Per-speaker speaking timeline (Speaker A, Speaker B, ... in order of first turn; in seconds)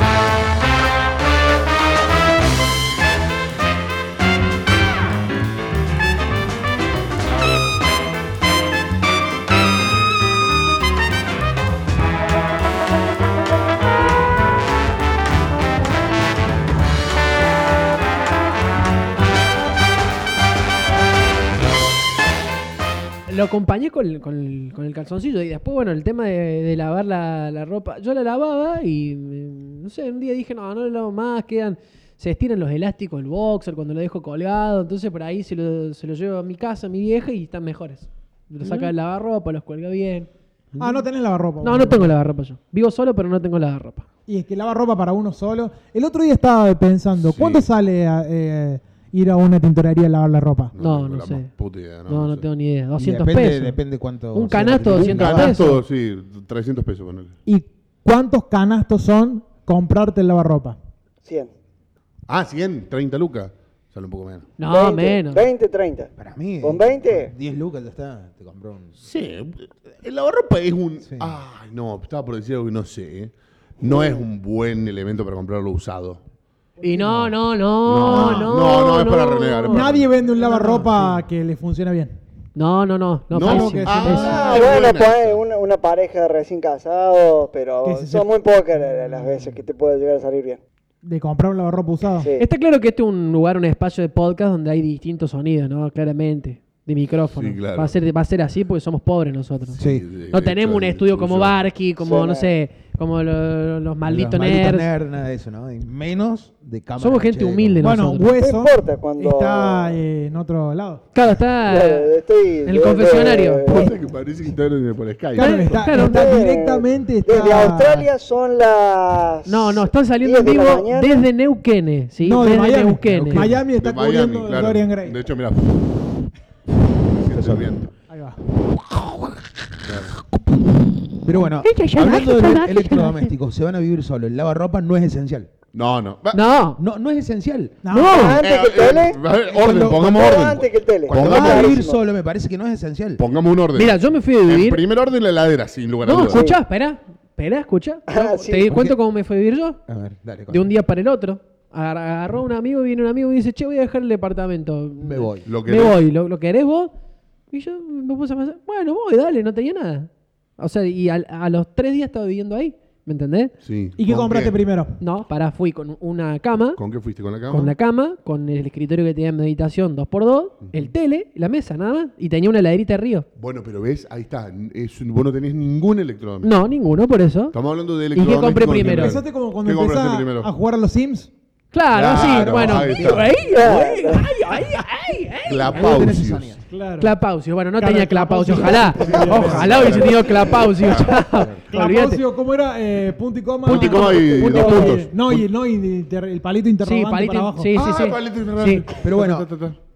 Speaker A: 23.3-40.3, 41.6-44.0, 50.8-51.5, 52.1-53.8, 54.3-55.8, 64.6-65.5, 76.8-79.9, 82.5-84.5, 92.4-104.9, 107.0-108.3, 111.1-112.1, 112.6-113.8, 115.3-116.3, 119.5-123.5, 131.6-133.3, 136.3-136.8, 137.9-138.4, 143.7-144.8, 146.0-149.8, 150.5-156.9, 157.5-163.5, 165.0-166.8, 167.5-173.2, 176.4-177.5, 178.1-179.2, 181.7-186.0, 187.0-192.2, 196.8-198.8
Speaker B: 40.7-41.0, 47.2-47.7, 50.7-52.5, 54.8-57.3, 62.3-64.5, 69.0-76.2, 77.8-80.1, 83.3-85.4, 97.3-98.0, 99.7-101.6, 113.6-115.8, 123.8-126.1, 127.1-127.9, 129.8-130.1, 135.7-136.4, 138.4-141.8, 143.2-146.5, 155.4-156.0, 163.6-164.5, 166.8-167.7, 173.3-176.5, 177.5-180.5, 181.9-183.3, 185.4-186.5, 189.3-191.2, 193.6-195.4, 197.7-199.8
Speaker C: 40.8-42.1, 44.3-50.7, 57.5-60.8, 78.1-78.5, 79.7-82.2, 83.3-84.6, 87.8-89.3, 91.0-92.3, 107.8-111.0, 115.3-118.1, 122.2-125.2, 128.1-128.4, 137.8-138.4, 164.0-165.0, 178.8-181.3, 186.7-187.1, 187.8-190.1, 191.7-197.7
Speaker D: 53.0-55.6, 66.2-69.0, 71.0-71.3, 80.5-81.2, 99.8-100.1, 104.0-107.9, 127.2-127.7, 131.2-135.5, 136.8-137.8, 139.3-140.2, 141.1-143.2, 148.7-149.0, 149.9-150.7, 155.0-155.5, 182.1-183.3, 185.7-186.6, 188.8-189.9, 191.3-191.6, 199.0-199.5
Speaker E: 61.2-61.5, 64.7-67.3, 73.8-74.2, 84.1-90.6, 92.2-92.4, 102.0-102.5, 108.4-110.0, 111.7-114.0, 115.9-121.2, 138.0-139.2, 140.0-142.0, 146.3-146.6, 148.1-148.7, 183.3-184.2, 193.7-195.0